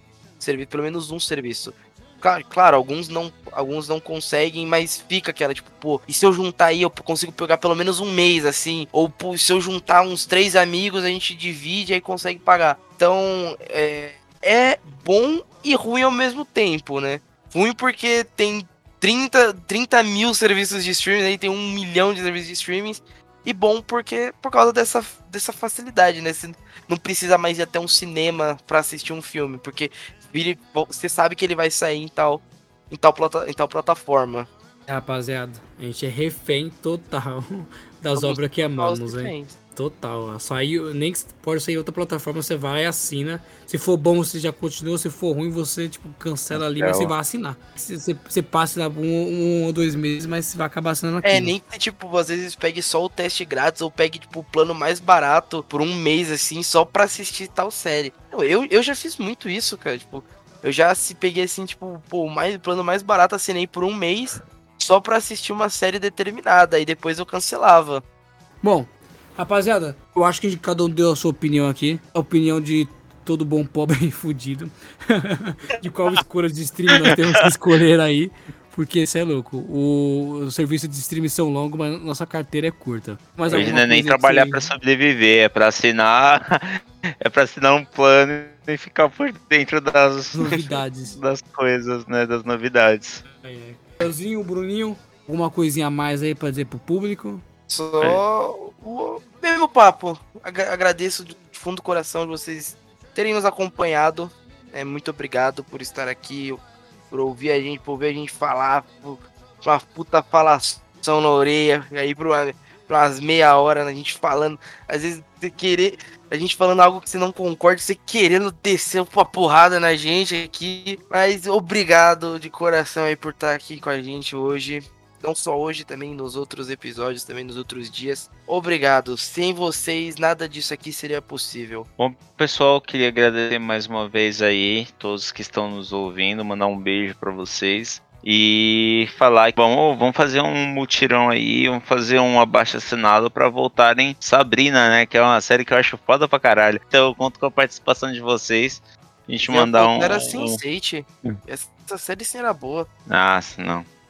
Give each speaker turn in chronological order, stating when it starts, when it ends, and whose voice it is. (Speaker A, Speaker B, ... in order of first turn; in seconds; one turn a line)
Speaker A: 0.4-34.5
Speaker B: 34.9-51.5
Speaker A: 38.1-39.5
Speaker C: 46.5-47.1
Speaker A: 51.2-68.0
Speaker B: 68.6-84.7
Speaker C: 83.5-93.2
Speaker B: 90.3-91.2
Speaker B: 93.3-97.4
Speaker A: 97.7-131.9
Speaker C: 132.0-150.6
Speaker A: 149.4-152.9
Speaker C: 153.1-153.9